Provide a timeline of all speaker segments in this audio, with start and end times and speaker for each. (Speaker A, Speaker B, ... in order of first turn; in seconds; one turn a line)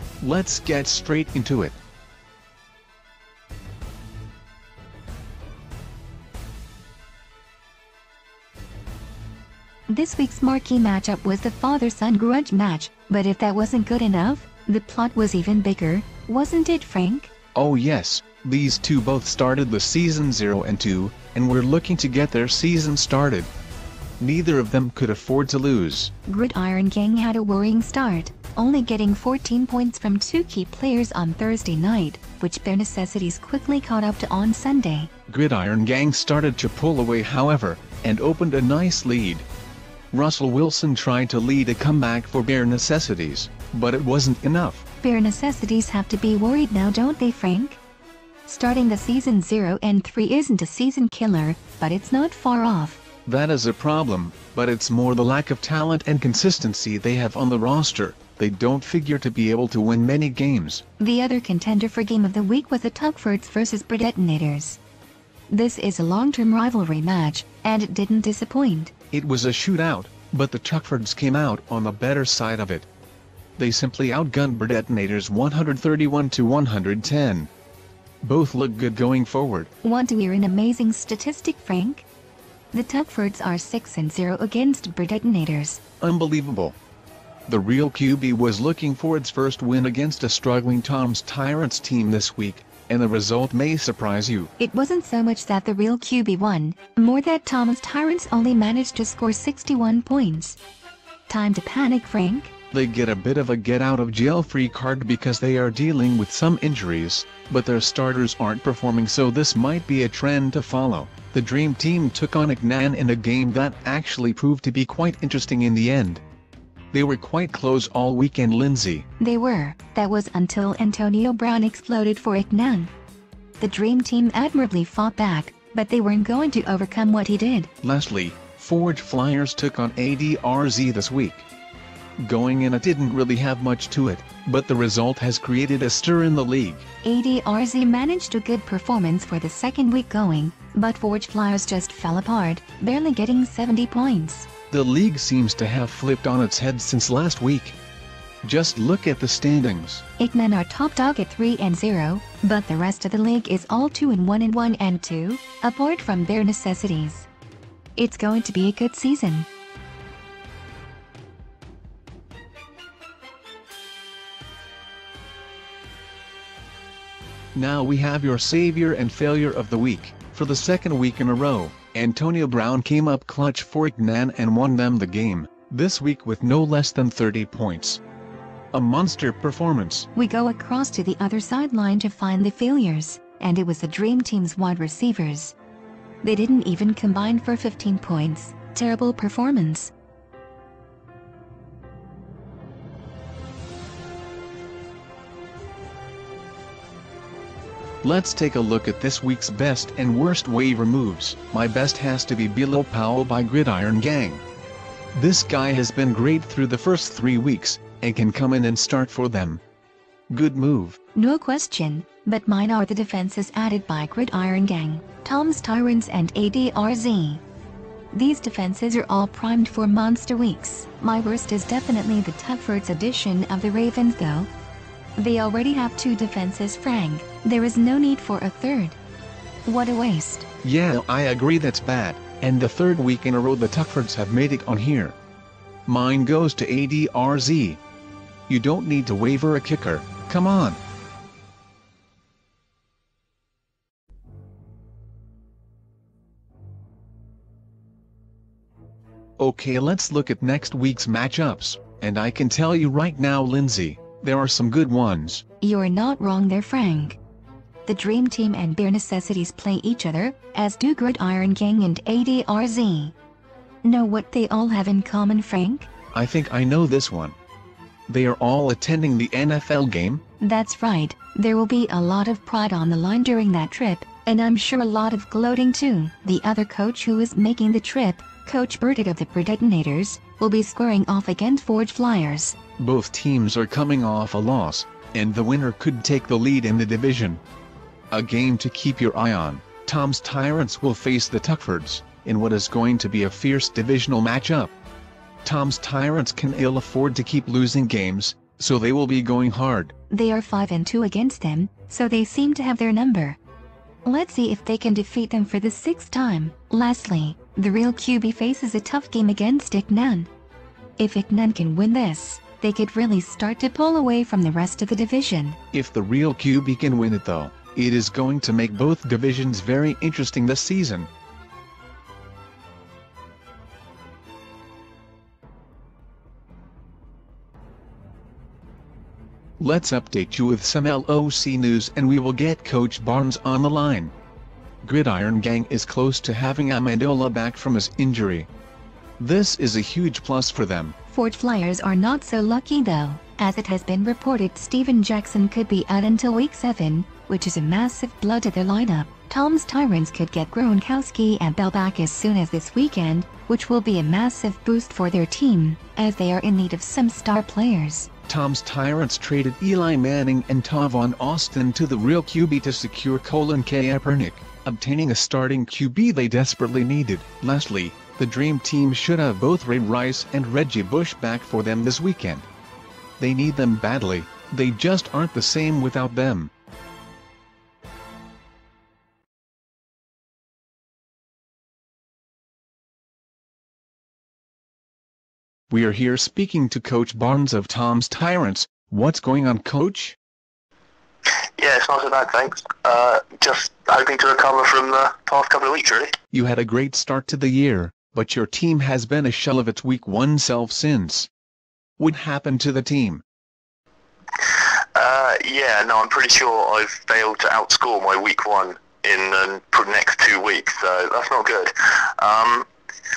Speaker A: 0.2-1.8
Speaker B: 9.9-17.3
Speaker A: 17.5-23.5
Speaker A: 24.2-26.1
Speaker B: 26.2-35.1
Speaker A: 35.3-39.5
Speaker A: 40.1-44.8
Speaker B: 45.0-47.8
Speaker B: 48.5-53.0
Speaker A: 53.2-60.8
Speaker B: 61.0-64.8
Speaker B: 65.5-68.9
Speaker A: 69.1-72.9
Speaker A: 73.6-77.5
Speaker A: 78.2-79.7
Speaker B: 79.8-82.1
Speaker B: 82.7-85.8
Speaker A: 86.0-86.8
Speaker A: 87.5-94.5
Speaker B: 94.6-100.6
Speaker B: 101.3-102.5
Speaker A: 102.7-116.2
Speaker A: 116.9-119.1
Speaker B: 119.2-122.9
Speaker B: 123.6-127.7
Speaker A: 127.8-131.4
Speaker A: 132.2-136.8
Speaker B: 137.0-144.5
Speaker A: 144.7-147.8
Speaker A: 148.4-150.0
Speaker B: 150.2-157.3
Speaker B: 157.9-159.5
Speaker A: 167.5-178.0
Speaker A: 178.7-180.1
Speaker B: 180.1-185.5
Speaker B: 186.2-189.9
Speaker A: 198.0-204.4
Speaker A: 205.1-209.6
Speaker A: 210.3-211.0
Speaker B: 211.1-217.4
Speaker B: 218.1-224.5
Speaker B: 225.2-229.0
Speaker B: 229.7-230.4
Speaker A: 230.6-235.2
Speaker A: 235.9-237.8
Speaker A: 238.5-240.8
Speaker A: 249.4-255.4
Speaker B: 255.6-257.2
Speaker B: 257.9-263.1
Speaker B: 263.8-265.9
Speaker A: 266.1-267.4
Speaker A: 268.1-270.2
Speaker B: 270.4-282.6
Speaker A: 282.8-287.4
Speaker A: 288.1-294.7
Speaker A: 295.4-299.9
Speaker B: 300.1-303.4
Speaker B: 304.0-310.3
Speaker B: 311.0-315.6
Speaker A: 315.7-321.1
Speaker A: 329.6-334.1
Speaker A: 334.8-338.5
Speaker A: 339.2-340.9
Speaker B: 341.1-358.1
Speaker A: 358.3-372.5
Speaker A: 373.2-376.5
Speaker A: 385.7-390.2
Speaker C: 391.6-396.1
Speaker A: 396.3-401.3
Speaker A: 402.0-403.2
Speaker C: 404.9-412.7